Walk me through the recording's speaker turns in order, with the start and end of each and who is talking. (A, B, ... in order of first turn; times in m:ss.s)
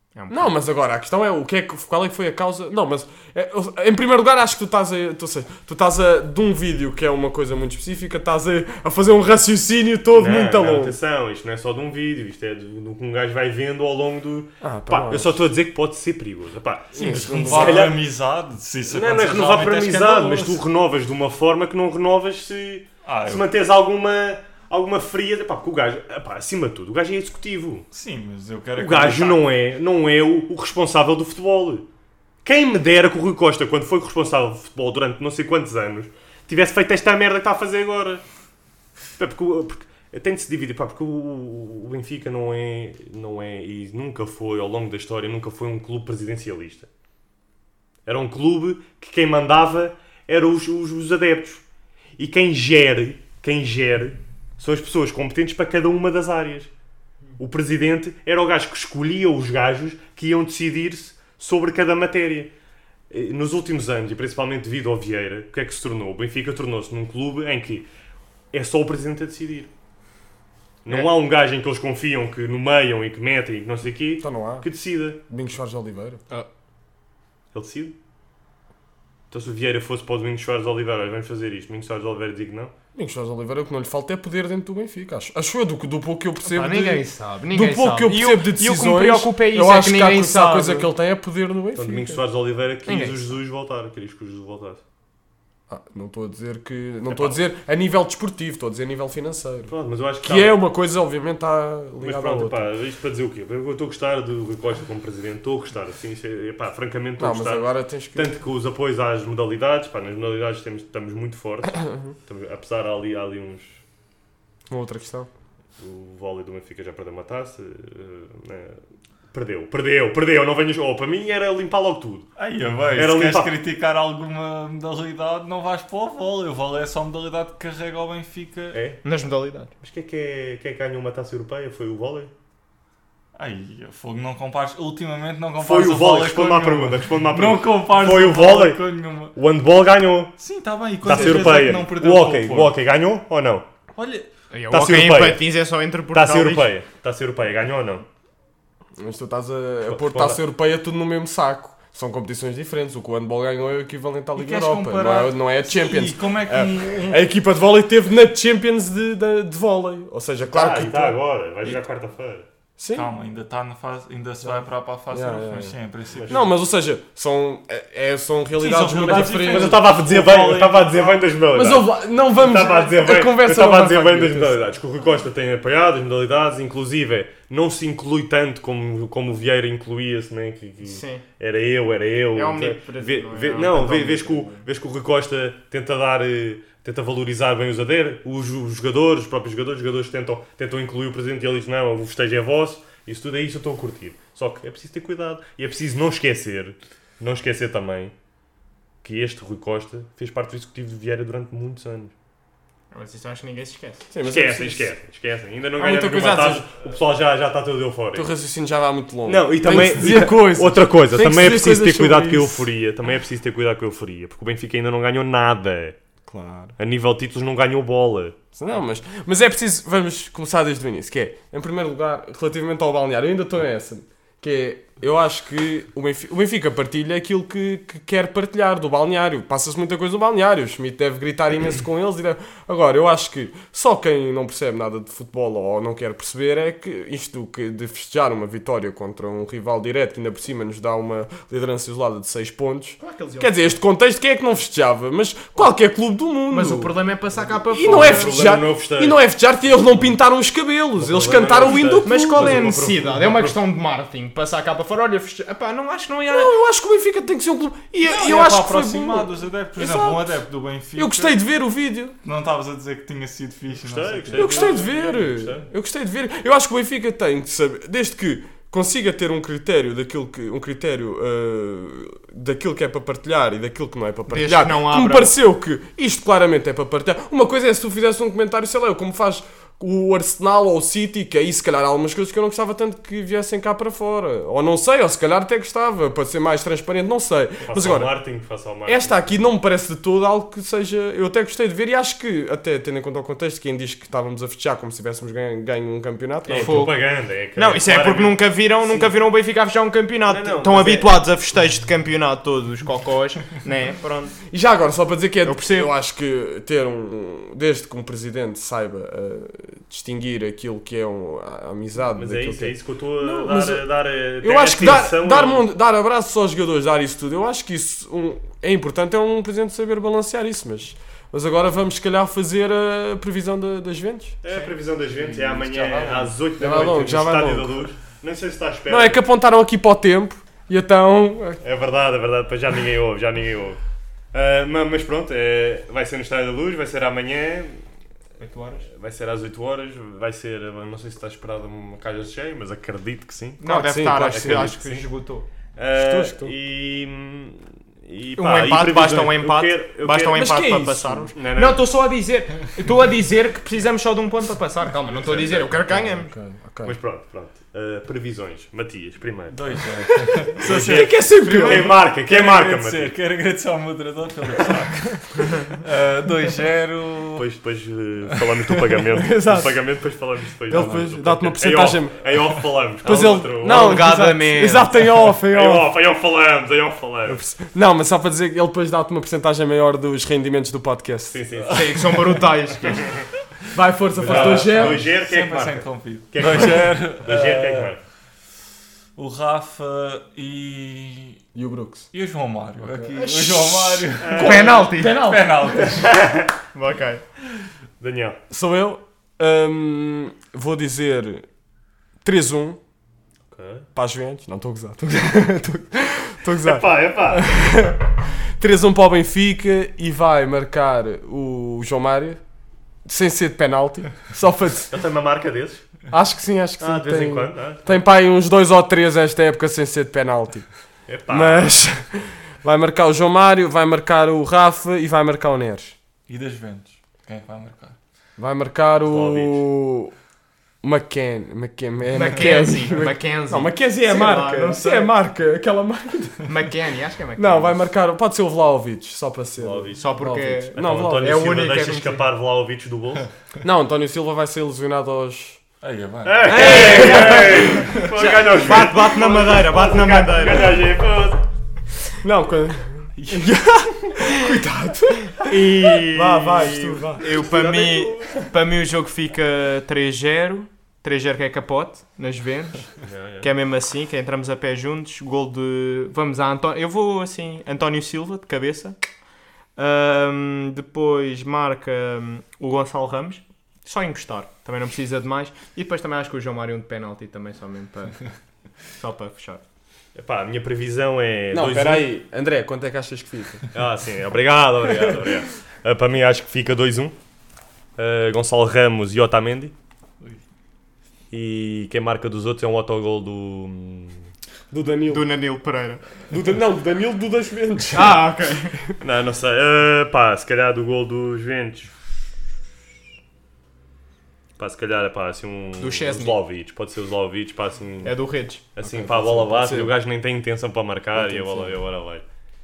0:00.2-0:00.6 A
0:00.3-0:11.0 B
0:10.2-0:18.0 C
0:14.6-0:15.4 B
0:16.9-0:17.9 B
0:17.0-0:20.6 D
0:18.9-0:27.9 C
0:23.0-0:23.5 D
0:27.9-0:29.4 D
0:28.8-0:31.9 C
0:32.4-0:38.2 C
0:39.2-0:46.9 C
0:48.1-0:51.6 C
0:52.2-0:56.7 C
0:57.4-1:02.5 C
1:03.1-1:07.9 C
1:08.5-1:09.7 C
1:10.8-1:15.2 C
1:14.2-1:14.7 B
1:15.3-1:16.2 B
1:17.5-1:18.0 C
1:19.3-1:22.7 C
1:23.0-1:32.2 B
1:26.4-1:30.9 A
1:31.8-1:34.8 C
1:32.9-1:33.2 A
1:35.7-1:39.7 B
1:37.1-1:37.4 C
1:39.7-1:40.6 C
1:40.2-1:42.7 B
1:42.0-1:53.8 C
1:47.2-1:48.3 B
1:51.9-1:52.1 B
1:54.7-1:55.3 B
1:55.8-1:58.8 C
1:59.3-2:02.3 C
2:02.4-2:08.8 D
2:02.9-2:03.5 C
2:08.7-2:09.0 C
2:09.0-2:09.7 A
2:09.8-2:12.3 C
2:13.4-2:19.3 D
2:15.6-2:18.8 C
2:19.3-2:20.3 C
2:20.4-2:22.8 D
2:21.0-2:23.7 C
2:24.0-2:24.3 D
2:24.5-2:26.7 A
2:24.7-2:25.5 C
2:26.1-2:28.0 C
2:29.0-2:41.2 B
2:29.9-2:30.4 C
2:34.4-2:37.2 D
2:40.5-2:42.5 C
2:42.8-2:43.1 B
2:42.9-2:46.5 D
2:45.1-2:45.8 B
2:46.2-2:46.5 C
2:46.3-2:49.9 B
2:48.6-2:51.2 D
2:49.2-3:18.1 C
2:51.5-2:54.6 B
3:00.8-3:01.2 A
3:02.3-3:04.6 A
3:19.0-3:22.1 C
3:22.9-3:24.1 A
3:24.1-3:24.9 B
3:24.3-3:28.3 C
3:25.8-3:26.7 B
3:28.2-3:32.7 B
3:29.3-3:36.0 C
3:36.3-3:36.8 B
3:36.8-3:38.4 C
3:38.6-4:06.9 B
4:03.0-4:03.8 A
4:06.5-4:08.4 A
4:07.7-4:12.7 B
4:07.8-4:09.2 C
4:11.0-4:13.6 C
4:11.8-4:16.5 A
4:16.3-4:20.4 B
4:18.0-4:21.4 D
4:21.0-4:22.2 B
4:22.2-4:24.7 D
4:23.8-4:25.7 C
4:24.3-4:48.1 B
4:34.3-4:35.3 A
4:47.6-4:49.3 C
4:48.9-4:56.9 B
4:56.5-4:59.2 C
4:56.5-5:04.4 A
5:00.3-5:01.2 C
5:04.5-5:13.8 B
5:05.4-5:05.9 A
5:12.2-5:15.6 C
5:14.4-5:24.4 B
5:24.4-5:29.2 C
5:25.1-5:26.4 D
5:26.6-5:27.9 B
5:28.9-5:31.6 B
5:31.6-5:33.8 C
5:34.3-5:37.8 C
5:38.4-5:38.9 A
5:38.8-5:43.6 C
5:43.6-5:45.5 A
5:43.6-5:44.8 B
5:44.2-5:45.1 C
5:45.8-5:50.5 C
5:46.0-5:46.5 B
5:48.4-5:56.3 A
5:50.3-5:51.3 B
5:51.3-5:51.8 C
5:55.1-5:55.7 C
5:55.9-5:57.0 B
5:56.8-5:59.6 C
5:59.5-6:07.4 D
6:00.6-6:02.0 B
6:00.6-6:03.1 C
6:07.4-6:14.0 C
6:08.3-6:08.7 D
6:09.2-6:09.8 B
6:10.7-6:12.2 B
6:13.0-6:15.9 B
6:13.0-6:14.9 A
6:15.4-6:17.4 C
6:17.3-6:21.4 B
6:21.3-6:22.1 C
6:21.7-6:23.1 A
6:22.8-6:23.3 C
6:23.7-6:25.0 B
6:24.2-6:28.0 C
6:24.2-6:27.9 D
6:29.2-6:31.4 D
6:31.6-6:32.1 B
6:32.1-6:36.2 D
6:32.8-6:36.0 B
6:34.2-6:34.9 C
6:34.3-6:35.2 A
6:36.0-6:36.5 C
6:36.7-6:37.2 A
6:38.0-6:38.4 C
6:38.5-6:41.5 B
6:42.2-6:42.8 B
6:43.5-6:43.9 C
6:44.0-6:52.4 B
6:46.6-6:47.4 C
6:53.1-6:54.9 B
6:54.9-6:55.8 C
6:56.1-7:00.7 B
6:56.8-6:58.0 C
7:01.1-7:01.8 C
7:01.3-7:06.0 B
7:06.3-7:08.0 D
7:08.4-7:10.1 B
7:09.1-7:09.6 C
7:10.8-7:16.4 B
7:12.1-7:15.1 A
7:16.5-7:17.8 A
7:17.4-7:21.4 B
7:19.6-7:20.1 C
7:20.0-7:22.3 A
7:20.8-7:23.3 C
7:23.6-7:25.6 B
7:25.8-7:27.8 D
7:26.2-7:31.4 C
7:26.5-7:28.6 B
7:26.5-7:30.8 A
7:32.2-7:37.3 B
7:33.2-7:33.5 D
7:34.2-7:34.5 A
7:35.4-7:49.0 A
7:37.3-7:38.4 C
7:43.0-7:43.5 C
7:49.8-7:58.2 A
7:58.9-7:59.6 A
8:00.2-8:02.1 C
8:01.5-8:03.6 B
8:03.7-8:07.2 C
8:08.0-8:09.7 C
8:11.3-8:14.3 C
8:14.7-8:15.3 B
8:15.1-8:16.0 A
8:16.3-8:18.3 B
8:17.9-8:18.8 A
8:19.0-8:21.9 C
8:24.6-8:28.2 C
8:25.8-8:26.4 A
8:28.0-8:28.6 A
8:28.8-8:32.2 C
8:28.8-8:29.9 B
8:31.2-8:31.8 B